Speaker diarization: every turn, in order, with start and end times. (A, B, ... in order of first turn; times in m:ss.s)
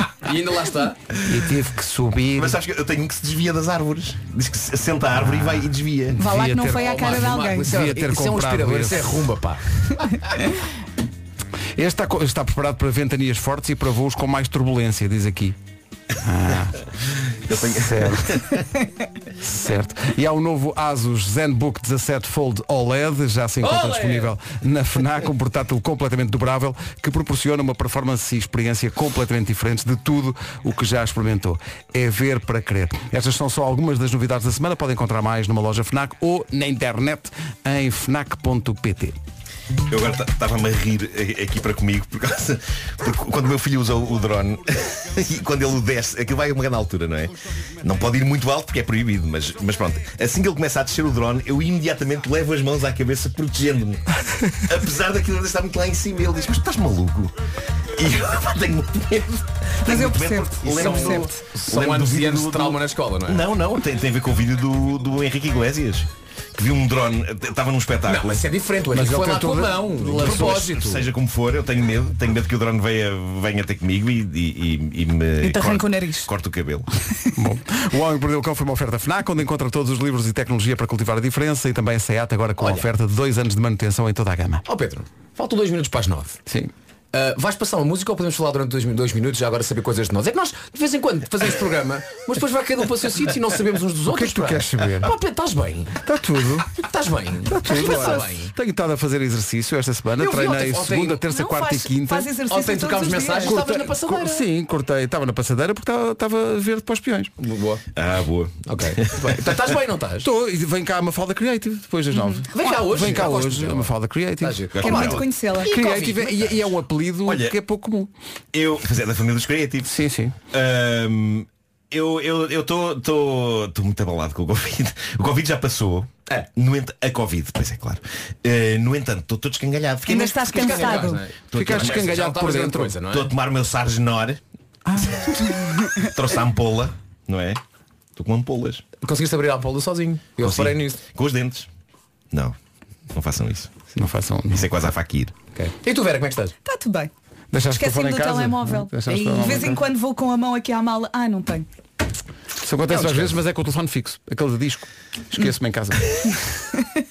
0:00.2-0:01.0 A
0:01.2-0:02.6 B
0:02.4-0:06.2 C
0:05.1-0:09.3 B
0:06.2-0:07.7 D
0:06.8-0:09.6 A
0:11.8-0:15.6 B
0:16.2-0:16.8 B
0:17.5-0:18.6 C
0:17.6-0:18.4 B
0:19.4-0:39.2 B
0:23.6-0:24.3 A
0:39.9-0:54.1 C
0:54.6-0:57.3 C
0:57.9-1:08.4 C
0:59.8-1:01.4 D
1:00.6-1:03.5 A
1:08.1-1:11.0 A
1:08.9-1:11.0 B
1:10.2-1:16.9 C
1:15.4-1:16.3 D
1:17.4-1:24.6 B
1:22.6-1:22.9 A
1:24.6-1:26.4 A
1:27.1-1:36.0 A
1:34.1-1:35.1 B
1:36.0-1:36.7 B
1:36.7-1:38.5 A
1:37.4-1:42.4 B
1:40.2-1:41.2 A
1:41.3-1:43.6 D
1:42.5-1:44.4 A
1:43.4-1:47.3 B
1:47.4-1:47.8 A
1:47.9-1:49.4 C
1:48.6-1:50.3 A
1:50.2-1:58.1 B
1:52.5-1:56.6 A
1:54.7-1:55.2 C
1:54.8-1:55.7 D
1:57.2-1:57.6 C
1:58.5-1:59.9 C
1:59.9-2:00.3 B
2:00.5-2:12.2 C
2:10.1-2:11.2 D
2:10.5-2:13.3 A
2:11.5-2:13.0 B
2:13.0-2:14.4 C
2:15.9-2:17.6 C
2:18.2-2:18.8 C
2:19.0-2:21.0 A
2:20.4-2:21.7 C
2:23.1-2:23.7 C
2:23.9-2:24.7 B
2:24.5-2:25.4 C
2:25.5-2:26.5 A
2:26.6-2:27.1 D
2:27.5-2:29.8 B
2:27.8-2:31.6 D
2:32.6-2:36.0 B
2:32.9-2:33.3 A